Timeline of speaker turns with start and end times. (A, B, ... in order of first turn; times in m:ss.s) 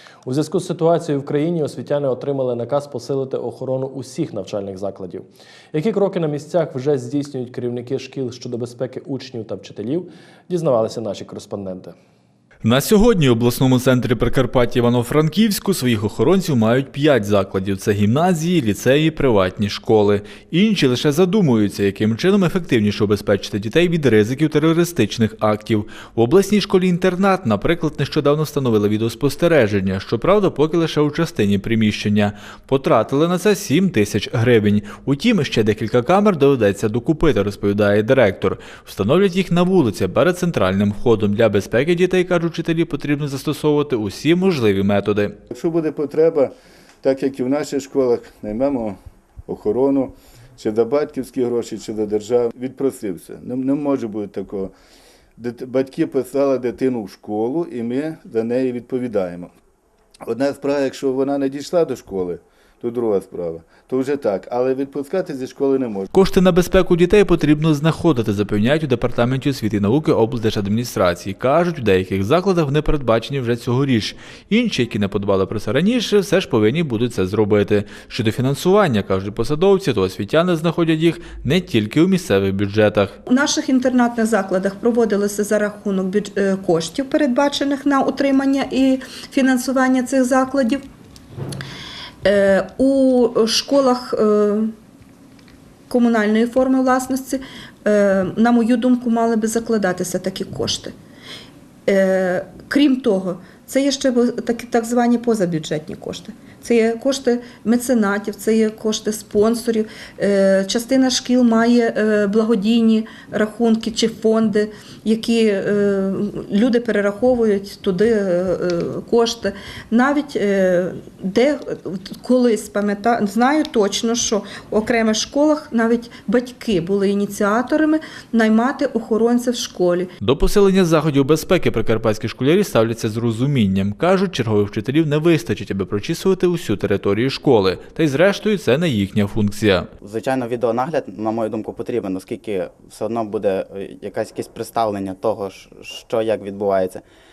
0:00.2-0:11.9 A
0:12.6-0:45.3 B
0:45.5-0:54.7 C
0:55.4-0:59.5 C
1:00.2-1:06.1 C
1:06.1-1:23.2 B
1:23.3-1:30.8 D
1:32.2-1:34.7 D
1:35.9-1:40.9 D
1:41.9-2:10.1 D
2:10.2-2:19.9 B
2:20.0-2:27.0 E